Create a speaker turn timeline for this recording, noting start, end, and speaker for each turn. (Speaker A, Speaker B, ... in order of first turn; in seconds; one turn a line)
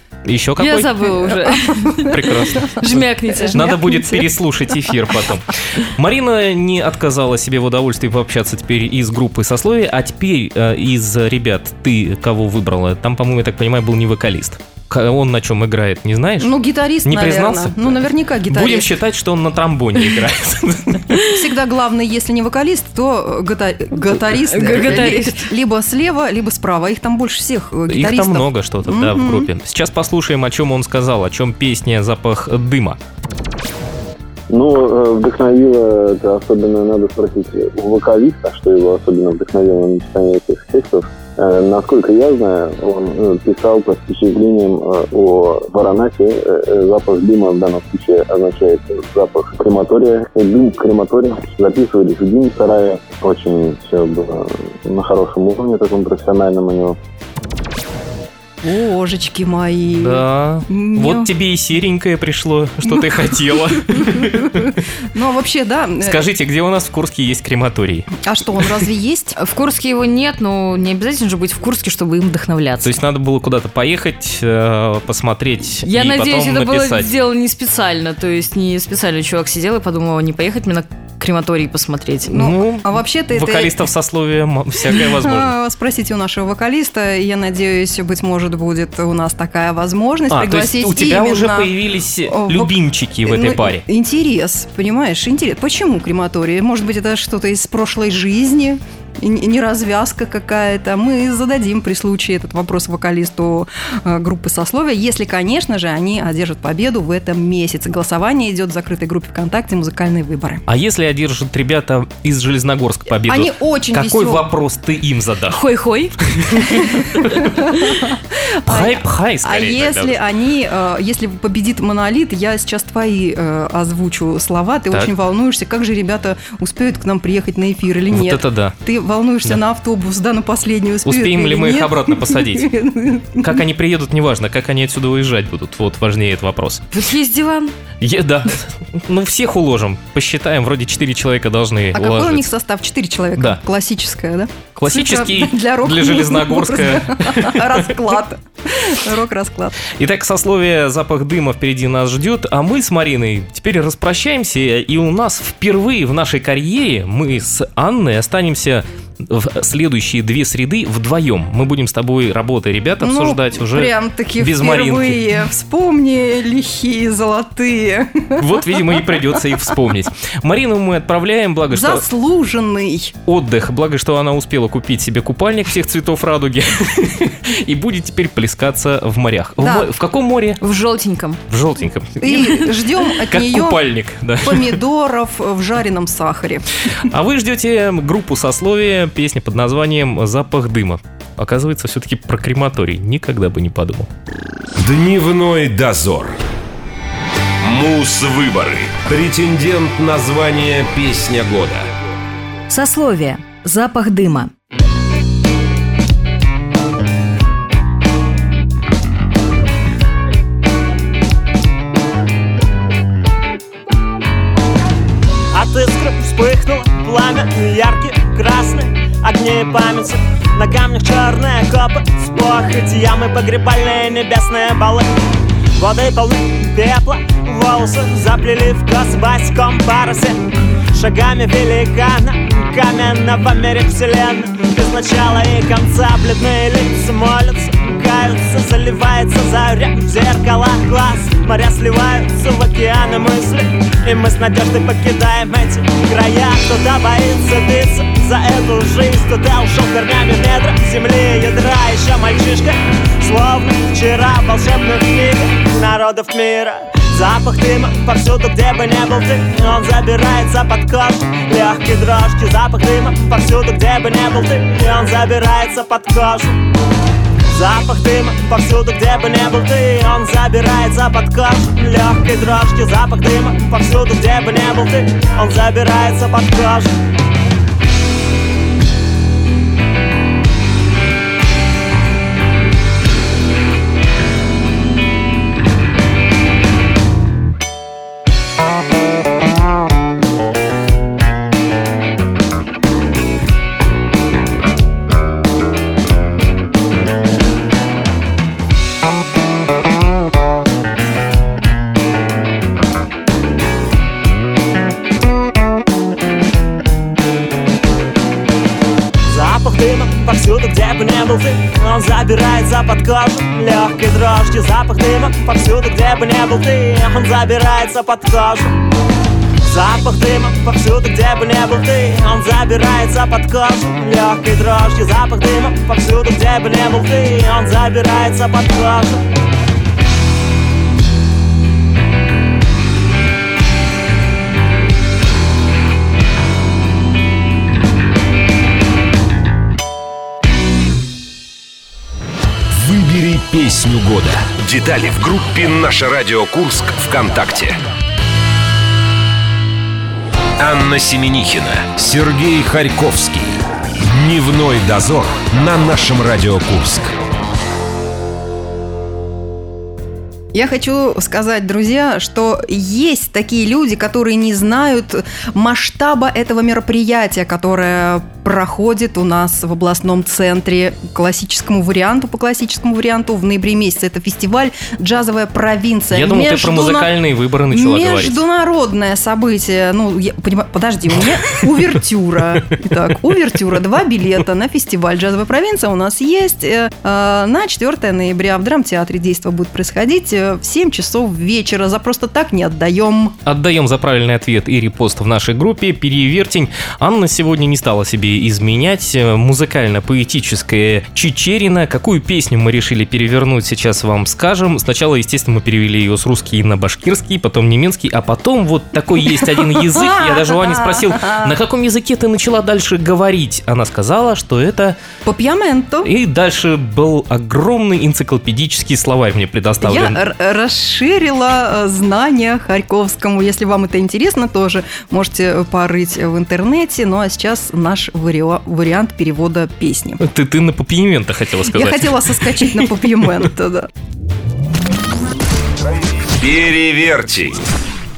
Speaker A: 0.2-0.9
Speaker B: 0.6-2.2
Speaker C: 1.3-4.3
Speaker A: 2.1-16.5
Speaker B: 2.9-3.6
Speaker C: 16.4-18.9
Speaker A: 17.0-21.2
Speaker C: 21.3-29.5
Speaker B: 24.2-25.5
Speaker A: 27.9-33.0
Speaker D: 34.5-57.0
Speaker C: 58.6-61.3
Speaker A: 59.9-64.8
Speaker C: 64.6-66.2
Speaker A: 66.0-68.1
Speaker C: 68.2-69.3
Speaker B: 69.3-72.9
Speaker A: 72.8-77.1
Speaker B: 75.8-82.4
Speaker C: 82.3-83.9
Speaker A: 82.3-85.5
Speaker C: 84.8-91.7
Speaker A: 90.3-93.8
Speaker C: 92.3-110.6
Speaker A: 110.7-115.7
Speaker C: 113.2-114.5
Speaker B: 115.5-117.0
Speaker A: 116.2-120.2
Speaker C: 117.2-117.7
Speaker C: 118.6-133.6
Speaker A: 128.1-128.8
Speaker A: 131.0-132.7
Speaker A: 133.4-136.8
Speaker B: 136.9-137.7
Speaker A: 138.0-142.5
Speaker C: 141.9-149.8
Speaker A: 144.8-147.8
Speaker A: 150.0-165.2
Speaker C: 163.0-169.7
Speaker A: 168.4-172.0
Speaker C: 171.7-173.1
Speaker A: 173.2-180.6
Speaker C: 179.6-179.9
Speaker B: 180.6-181.4
Speaker A: 181.5-184.8
Speaker C: 182.2-183.8
Speaker C: 184.4-186.6
Speaker A: 187.1-194.1
Speaker E: 194.8-196.3
Speaker E: 197.6-201.9
Speaker B: 202.7-204.5
Speaker F: 215.5-225.0
Speaker F: 225.8-230.4
Speaker F: 230.9-266.6
Speaker F: 267.5-276.9
Speaker F: 309.3-318.7
Speaker F: 319.6-329.2
Speaker E: 342.7-347.8
Speaker E: 350.6-357.1
Speaker C: 360.5-393.3
Speaker A: 376.1-378.4
Speaker A: 393.4-415.0
Speaker C: 409.3-411.5
Speaker C: 415.2-416.1
Speaker A: 416.0-420.2
Speaker C: 419.8-430.2
Speaker A: 430.2-432.9
Speaker C: 431.6-433.9
Speaker E: 436.3-437.6